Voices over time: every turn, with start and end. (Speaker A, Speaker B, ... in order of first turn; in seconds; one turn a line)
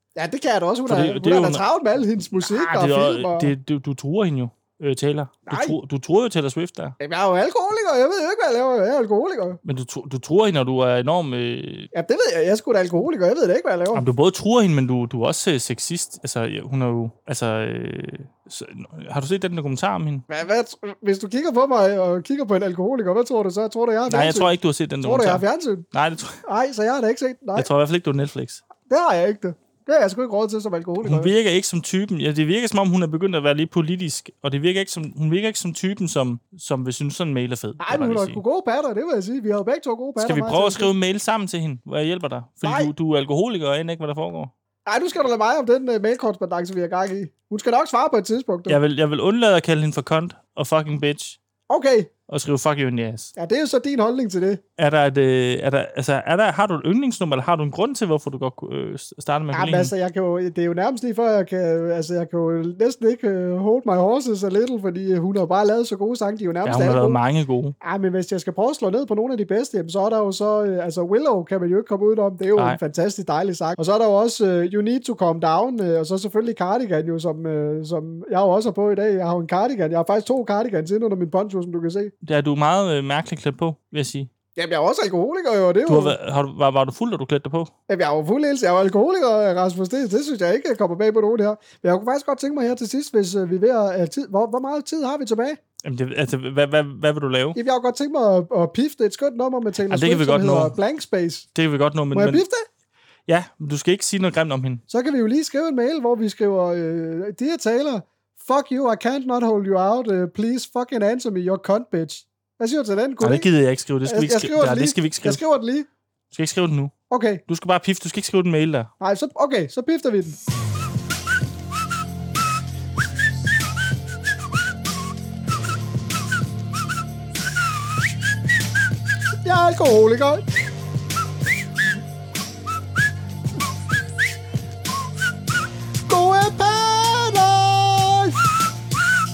Speaker A: 0.1-3.5
Speaker B: 0.9-1.6
Speaker B: 2.4-7.0
Speaker A: 5.5-5.8
Speaker A: 7.0-9.6
Speaker B: 9.6-11.9
Speaker A: 11.9-14.0
Speaker B: 13.9-20.3
Speaker A: 20.3-25.9
Speaker B: 24.1-26.4
Speaker A: 26.4-27.7
Speaker B: 27.6-28.6
Speaker A: 28.8-31.3
Speaker B: 31.0-38.4
Speaker A: 37.8-40.9
Speaker B: 40.2-44.5
Speaker A: 42.6-42.9
Speaker A: 44.9-48.8
Speaker B: 48.7-51.4
Speaker A: 51.7-52.1
Speaker B: 52.3-53.3
Speaker A: 53.4-54.6
Speaker B: 54.8-59.9
Speaker A: 59.5-67.2
Speaker B: 66.7-67.8
Speaker A: 67.8-82.1
Speaker B: 82.2-84.3
Speaker A: 84.6-86.2
Speaker B: 85.9-87.7
Speaker A: 87.9-95.6
Speaker B: 95.8-97.6
Speaker A: 97.6-101.5
Speaker B: 99.9-100.8
Speaker B: 101.5-102.4
Speaker A: 102.1-102.7
Speaker B: 103.3-104.8
Speaker A: 104.9-113.5
Speaker B: 113.2-115.4
Speaker A: 114.1-115.9
Speaker B: 116.3-116.9
Speaker A: 117.1-117.4
Speaker B: 117.5-118.9
Speaker A: 119.0-120.4
Speaker A: 129.4-130.4
Speaker A: 136.1-138.4